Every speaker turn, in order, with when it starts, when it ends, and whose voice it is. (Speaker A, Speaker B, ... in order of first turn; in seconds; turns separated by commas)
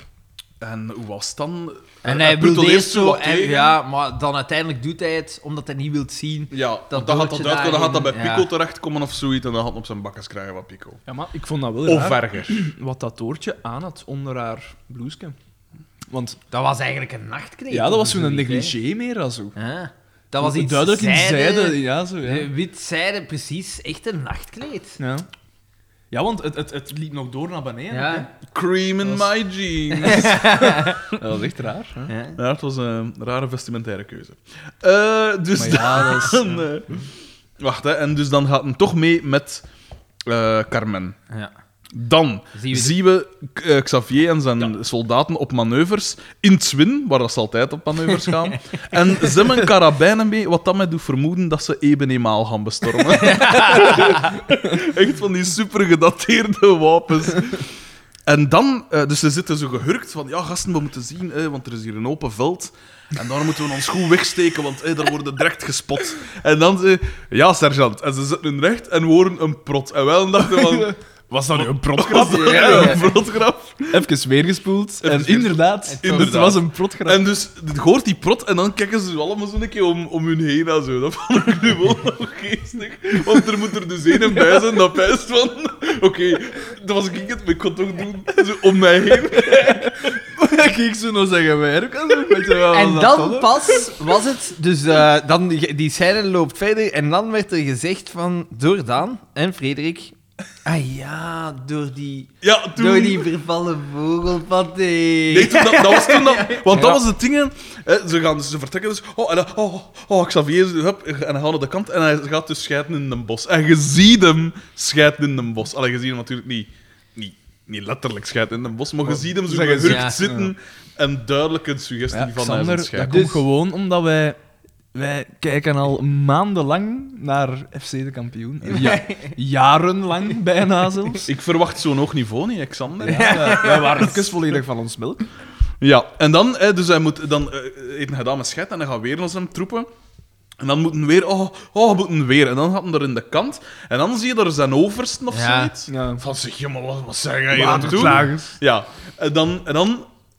Speaker A: 0.6-3.8, Speaker B: 2.0-8.5, Speaker A: 6.5-11.0, Speaker C: 11.1-15.4, Speaker A: 11.8-12.7, Speaker C: 16.1-16.4, Speaker B: 16.5-18.8, Speaker C: 17.7-19.6, Speaker B: 19.6-25.0, Speaker C: 20.4-22.5, Speaker C: 25.0-25.3, Speaker C: 26.1-28.3, Speaker B: 27.9-28.3, Speaker A: 28.5-30.5, Speaker C: 29.0-29.3, Speaker B: 30.0-31.0, Speaker C: 31.1-32.1, Speaker B: 32.1-32.4, Speaker A: 32.4-37.0, Speaker C: 35.5-36.6, Speaker A: 37.6-39.6, Speaker A: 40.3-41.2, Speaker A: 41.9-57.7, Speaker B: 42.5-43.0, Speaker B: 53.1-54.3, Speaker A: 58.3-74.0, Speaker C: 70.5-71.0, Speaker C: 71.5-73.1, Speaker B: 72.1-73.1, Speaker C: 73.9-77.2, Speaker A: 75.0-90.2, Speaker B: 75.9-76.5, Speaker C: 89.2-93.9, Speaker B: 92.7-106.8, Speaker A: 102.4-103.3, Speaker A: 105.3-123.2, Speaker C: 106.7-107.0, Speaker C: 119.1-120.5, Speaker B: 119.8-120.2, Speaker C: 122.1-124.4, Speaker B: 123.0-123.4, Speaker C: 124.9-131.3, Speaker B: 128.7-129.3, Speaker A: 131.2-133.5, Speaker C: 133.0-135.2, Speaker B: 133.0-134.3, Speaker A: 135.8-139.9, Speaker A: 140.6-150.1, Speaker B: 145.3-145.7, Speaker C: 145.9-146.2, Speaker C: 147.5-148.6, Speaker B: 147.6-148.3